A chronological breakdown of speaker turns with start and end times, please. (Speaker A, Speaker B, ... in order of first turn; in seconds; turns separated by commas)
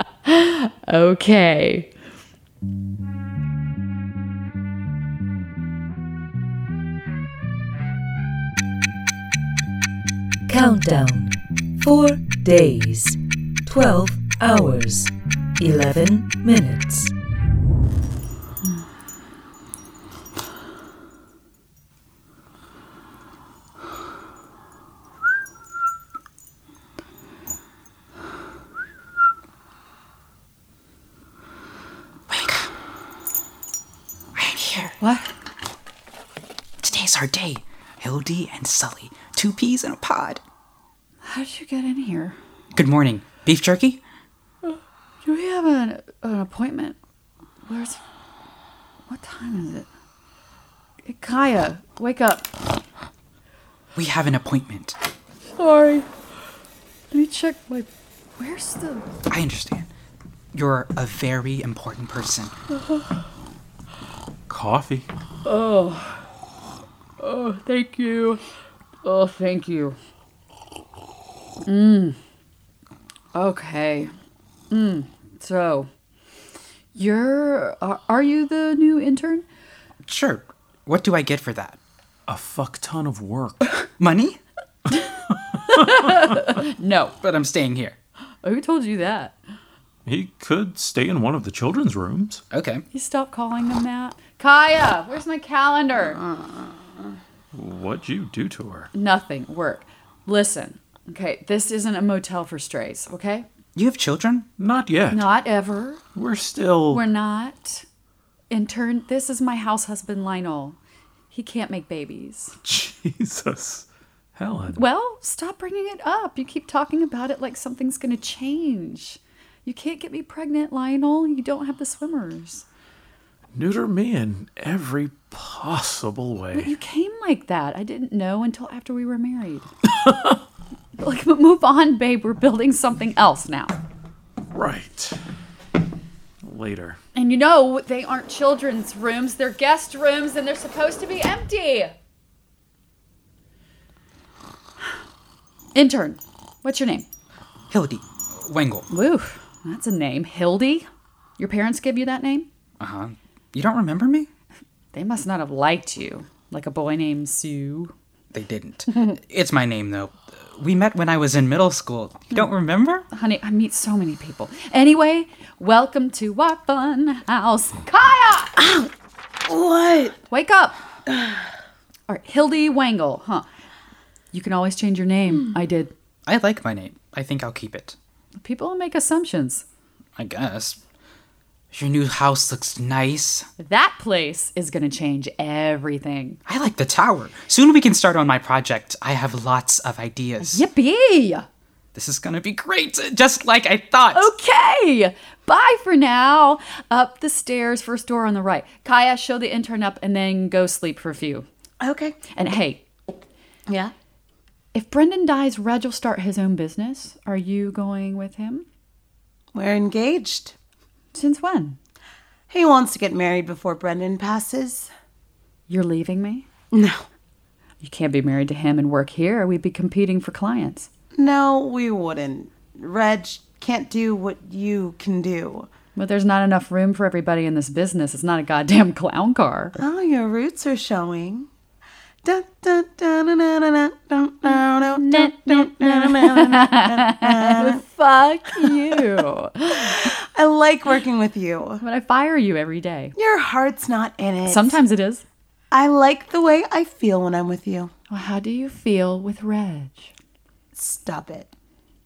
Speaker A: 0.3-1.9, Speaker B: 10.5-17.1, Speaker C: 32.3-32.7, Speaker C: 34.4-35.0, Speaker A: 35.0-35.3, Speaker C: 36.8-40.4, Speaker A: 41.2-42.4, Speaker C: 42.8-44.0, Speaker A: 44.7-47.0, Speaker A: 47.7-48.0, Speaker A: 49.1-49.9, Speaker A: 51.1-52.5, Speaker C: 54.0-55.0, Speaker A: 55.6-56.1, Speaker A: 57.1-59.1, Speaker C: 59.3-59.9, Speaker C: 60.5-62.5, Speaker D: 64.5-65.1, Speaker A: 65.5-66.2, Speaker A: 67.2-68.4, Speaker A: 69.0-70.0, Speaker A: 71.7-72.2, Speaker A: 73.3-74.1, Speaker A: 74.7-75.9, Speaker A: 77.0-79.5, Speaker C: 80.1-81.8, Speaker D: 82.3-83.7, Speaker C: 84.0-84.4, Speaker A: 85.7-87.1, Speaker C: 87.2-88.0, Speaker A: 88.4-89.4, Speaker D: 90.0-92.4, Speaker C: 92.5-92.8, Speaker A: 92.9-96.2, Speaker D: 97.5-98.9, Speaker A: 98.9-103.5, Speaker C: 103.8-104.5, Speaker D: 104.6-105.3, Speaker A: 105.1-106.0, Speaker D: 106.2-107.0, Speaker A: 106.9-107.8, Speaker A: 108.5-110.8, Speaker A: 111.3-112.6, Speaker D: 112.6-114.8, Speaker A: 114.7-122.7, Speaker D: 123.5-126.7, Speaker A: 126.5-129.7, Speaker A: 131.0-133.8, Speaker D: 134.5-135.2, Speaker D: 136.4-137.0, Speaker A: 137.2-141.9, Speaker A: 145.8-147.1, Speaker C: 147.7-148.9, Speaker A: 148.9-150.9, Speaker A: 151.4-152.5, Speaker C: 152.8-154.3, Speaker A: 154.9-157.9, Speaker C: 158.3-163.1, Speaker A: 163.1-168.6, Speaker E: 168.6-168.9, Speaker E: 169.4-170.2, Speaker A: 170.3-170.8, Speaker E: 171.1-171.5, Speaker A: 172.1-173.5, Speaker A: 174.3-175.9, Speaker C: 176.3-178.0, Speaker A: 178.3-179.6, Speaker C: 180.2-180.8, Speaker C: 181.7-183.5, Speaker A: 183.6-186.4, Speaker C: 186.5-190.6, Speaker A: 190.4-191.5, Speaker C: 191.9-194.3, Speaker A: 194.1-201.5, Speaker E: 201.8-202.2, Speaker A: 202.3-202.8, Speaker E: 203.7-203.9, Speaker A: 204.7-208.7, Speaker E: 209.5-210.6, Speaker A: 211.1-211.8, Speaker E: 212.5-214.9, Speaker A: 215.7-216.5, Speaker E: 216.7-217.1, Speaker A: 217.8-220.9, Speaker E: 221.1-225.7, Speaker A: 225.9-229.8, Speaker E: 229.8-231.5, Speaker E: 232.2-237.8, Speaker A: 235.0-240.0, Speaker E: 238.6-239.0, Speaker E: 239.8-241.8, Speaker A: 241.8-243.2, Speaker E: 243.2-244.8, Speaker A: 244.5-245.2, Speaker E: 245.7-247.9, Speaker A: 248.1-250.1, Speaker E: 250.8-251.5